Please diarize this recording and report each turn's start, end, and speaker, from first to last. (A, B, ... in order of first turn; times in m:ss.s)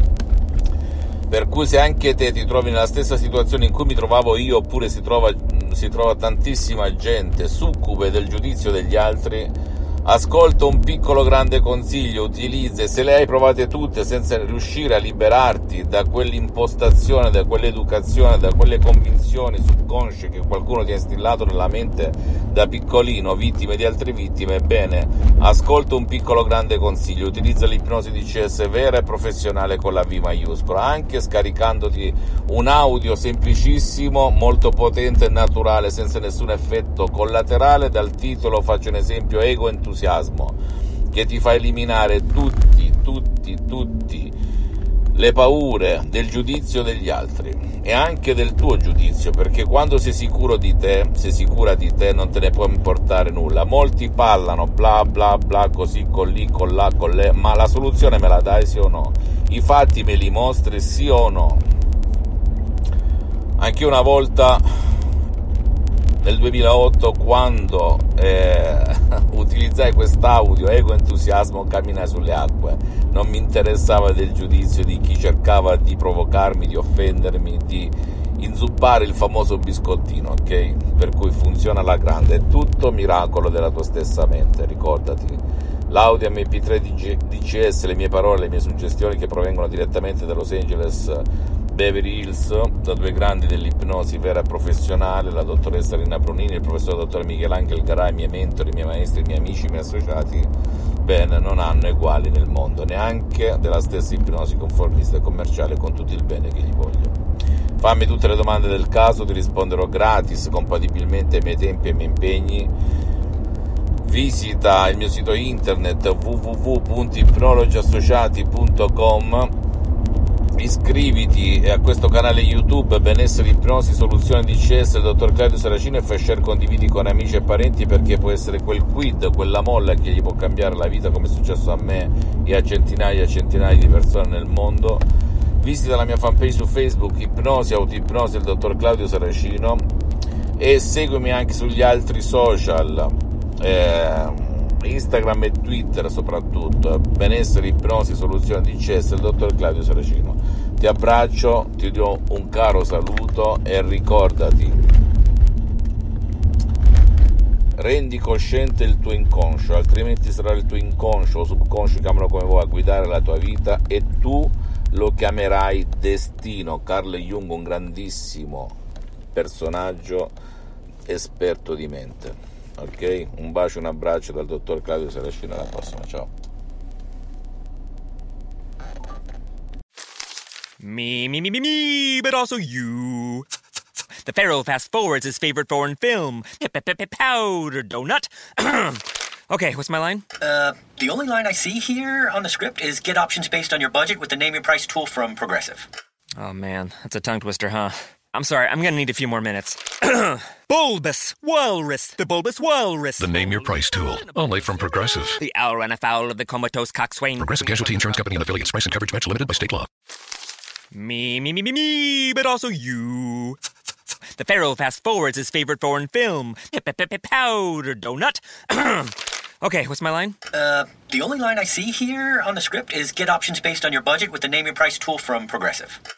0:01.3-0:40.6 A
0:41.1-0:44.3 A
0:45.1-1:01.6 A
1:03.6-1:04.6 A
1:06.2-1:47.1 A
1:47.8-1:52.7 A
1:54.0-1:59.5 A
2:00.6-2:15.0 A
2:15.6-2:19.8 A
2:20.6-2:34.8 A
2:37.8-2:48.8 A
2:49.3-2:50.3 A
2:51.0-2:56.3 A
3:00.8-3:03.4 B
3:04.2-3:10.2 B
3:10.4-3:15.9 C
3:16.4-3:23.5 B
3:23.2-3:25.4 D
3:25.4-3:27.6 B
3:27.4-3:29.9 D
3:30.9-3:33.6 B
3:34.4-3:40.4 B
3:40.5-3:46.0 C